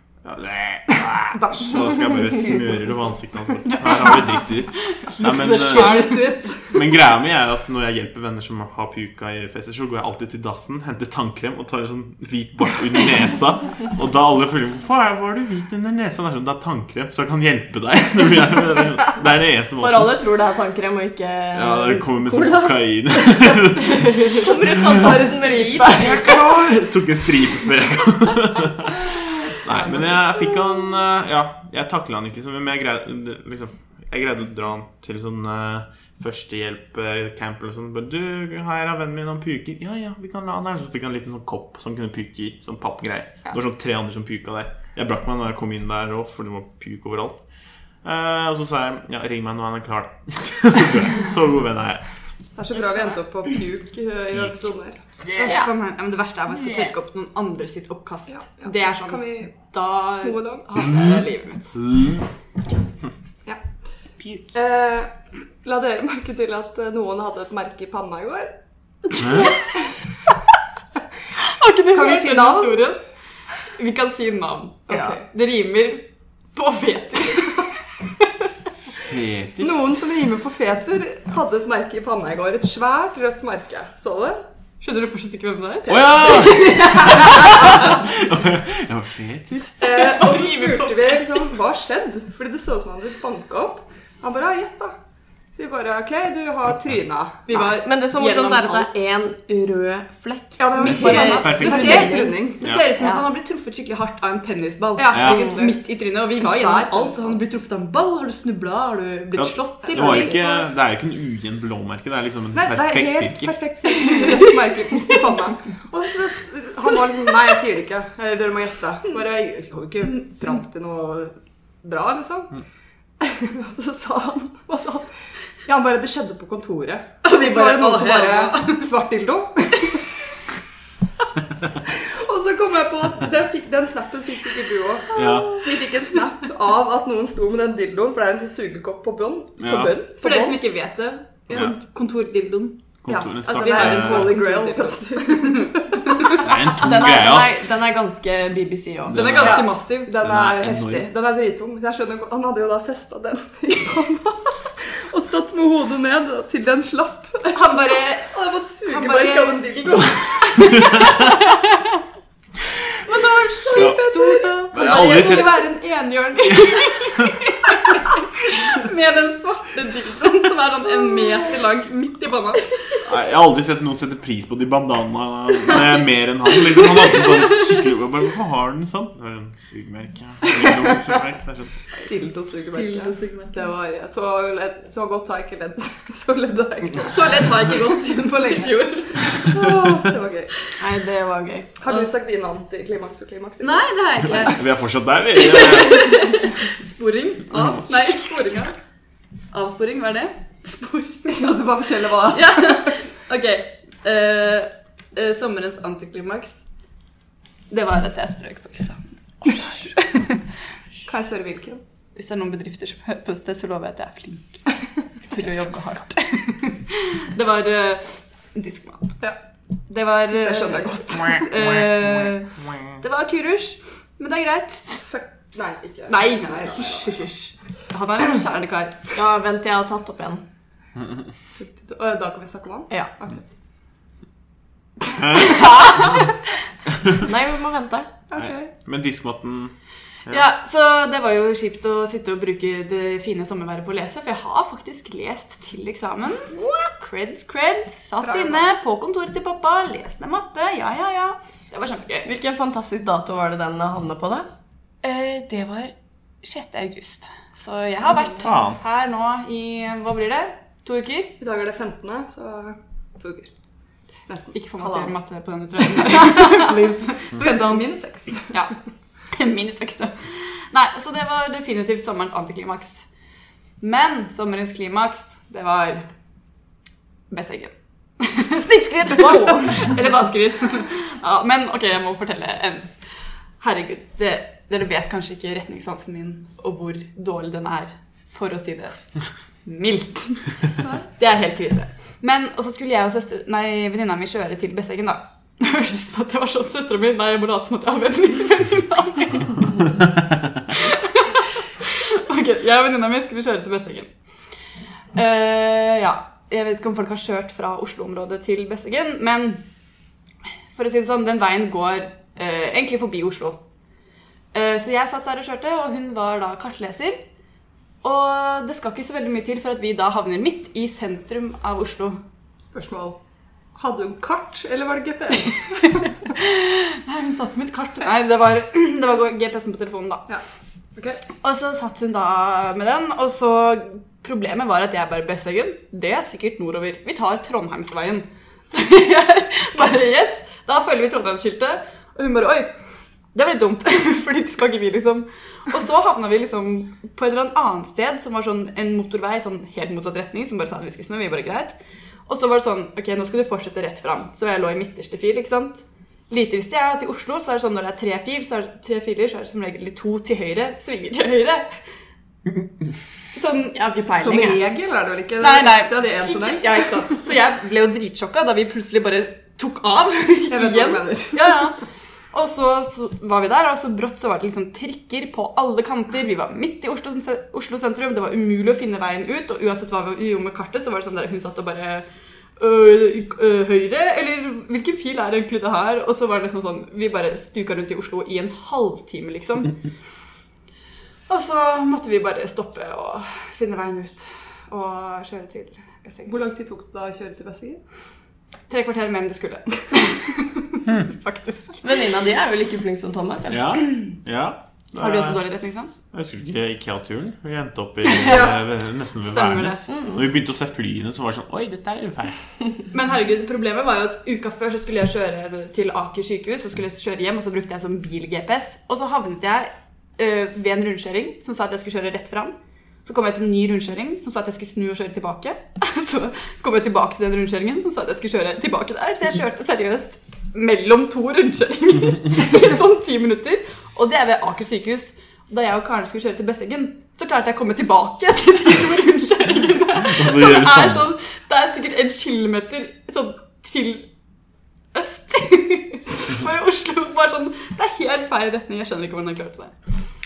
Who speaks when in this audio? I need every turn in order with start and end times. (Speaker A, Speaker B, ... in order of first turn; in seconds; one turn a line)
Speaker A: 0.2-20.1
Speaker B: 0.9-2.9
Speaker C: 3.7-6.7
Speaker B: 5.5-6.8
Speaker D: 19.8-22.9
Speaker A: 21.5-25.2
Speaker C: 23.9-24.4
Speaker D: 24.3-26.4
Speaker A: 25.8-47.4
Speaker C: 25.9-26.1
Speaker B: 29.7-30.2
Speaker A: 48.0-52.0
Speaker B: 52.6-55.0
Speaker C: 55.4-61.8
Speaker B: 58.3-59.5
Speaker B: 60.2-60.9
Speaker A: 61.9-62.2
Speaker B: 64.5-68.5
Speaker B: 69.1-69.9
Speaker A: 69.2-69.5
Speaker C: 71.4-73.0
Speaker B: 71.9-72.9
Speaker C: 73.8-77.7
Speaker B: 74.9-75.3
Speaker A: 79.0-79.7
Speaker B: 79.6-84.4
Speaker C: 84.8-87.9
Speaker B: 85.9-88.0
Speaker A: 85.9-89.7
Speaker B: 89.8-95.0
Speaker C: 89.8-91.5
Speaker B: 95.5-97.5
Speaker C: 97.5-99.0
Speaker D: 97.5-103.2
Speaker B: 100.6-102.7
Speaker C: 100.8-110.5
Speaker A: 100.8-102.1
Speaker A: 102.6-102.9
Speaker B: 105.0-105.8
Speaker A: 105.1-105.5
Speaker B: 106.3-107.4
Speaker A: 109.3-113.5
Speaker B: 109.8-110.6
Speaker B: 112.5-122.6
Speaker B: 123.2-125.1
Speaker B: 125.7-130.0
Speaker C: 127.2-128.9
Speaker B: 131.9-140.6
Speaker A: 135.1-135.6
Speaker A: 139.6-139.9
Speaker C: 140.2-142.8
Speaker A: 143.0-144.4
Speaker B: 143.1-146.4
Speaker C: 143.4-146.6
Speaker A: 146.3-147.6
Speaker D: 146.8-149.2
Speaker A: 149.1-149.7
Speaker C: 149.1-150.2
Speaker B: 149.3-160.8
Speaker A: 150.2-151.1
Speaker C: 157.5-158.3
Speaker C: 158.9-162.0
Speaker C: 163.1-173.0
Speaker B: 163.6-165.7
Speaker A: 163.7-164.0
Speaker A: 164.7-165.7
Speaker A: 166.5-167.3
Speaker A: 173.0-181.7
Speaker C: 176.7-177.9
Speaker B: 182.0-190.5
Speaker C: 182.7-183.7
Speaker C: 187.0-190.0
Speaker D: 190.8-191.7
Speaker B: 191.8-194.5
Speaker C: 193.6-194.7
Speaker A: 194.3-196.3
Speaker C: 195.3-198.8
Speaker C: 199.5-201.6
Speaker B: 201.3-202.9
Speaker C: 202.3-206.6
Speaker C: 207.7-210.4
Speaker B: 211.1-211.8
Speaker C: 212.2-214.6
Speaker C: 215.2-219.2
Speaker C: 219.9-225.1
Speaker B: 220.3-221.5
Speaker A: 221.6-222.3
Speaker B: 225.1-227.3
Speaker C: 226.1-229.1
Speaker D: 229.2-230.4
Speaker B: 231.6-233.4
Speaker A: 235.2-235.5
Speaker C: 235.3-236.3
Speaker D: 237.1-238.1
Speaker B: 238.3-238.7
Speaker A: 238.4-239.7
Speaker C: 240.3-252.3
Speaker B: 248.2-248.7
Speaker D: 252.2-254.5
Speaker C: 255.0-261.4
Speaker A: 258.4-258.8
Speaker B: 261.4-263.5
Speaker B: 264.3-265.1
Speaker C: 264.6-268.7
Speaker B: 266.0-266.7
Speaker B: 267.3-268.6
Speaker C: 269.3-273.1
Speaker C: 273.8-276.1
Speaker C: 277.3-282.9
Speaker C: 283.6-289.0
Speaker C: 289.6-290.5
Speaker C: 291.2-299.9
Speaker C: 300.7-304.1
Speaker C: 305.1-309.6
Speaker C: 310.8-313.6
Speaker C: 314.5-317.2
Speaker C: 318.0-322.2
Speaker B: 322.6-323.2
Speaker B: 323.8-326.1
Speaker C: 326.3-330.3
Speaker B: 331.0-331.2
Speaker C: 331.4-342.7
Speaker C: 343.3-361.7
Speaker C: 363.3-363.8
Speaker D: 363.8-364.6
Speaker B: 364.1-366.9
Speaker C: 365.4-371.8
Speaker B: 370.5-371.6
Speaker C: 372.3-382.1
Speaker C: 382.6-389.8
Speaker C: 391.3-396.4
Speaker B: 396.3-397.8
Speaker C: 398.7-401.8
Speaker D: 401.8-403.6
Speaker A: 403.5-405.4
Speaker C: 405.0-406.0
Speaker A: 406.1-412.4
Speaker C: 408.1-408.5
Speaker B: 408.2-408.6
Speaker C: 409.2-409.9
Speaker C: 412.9-444.1
Speaker A: 440.0-441.1
Speaker C: 444.9-449.7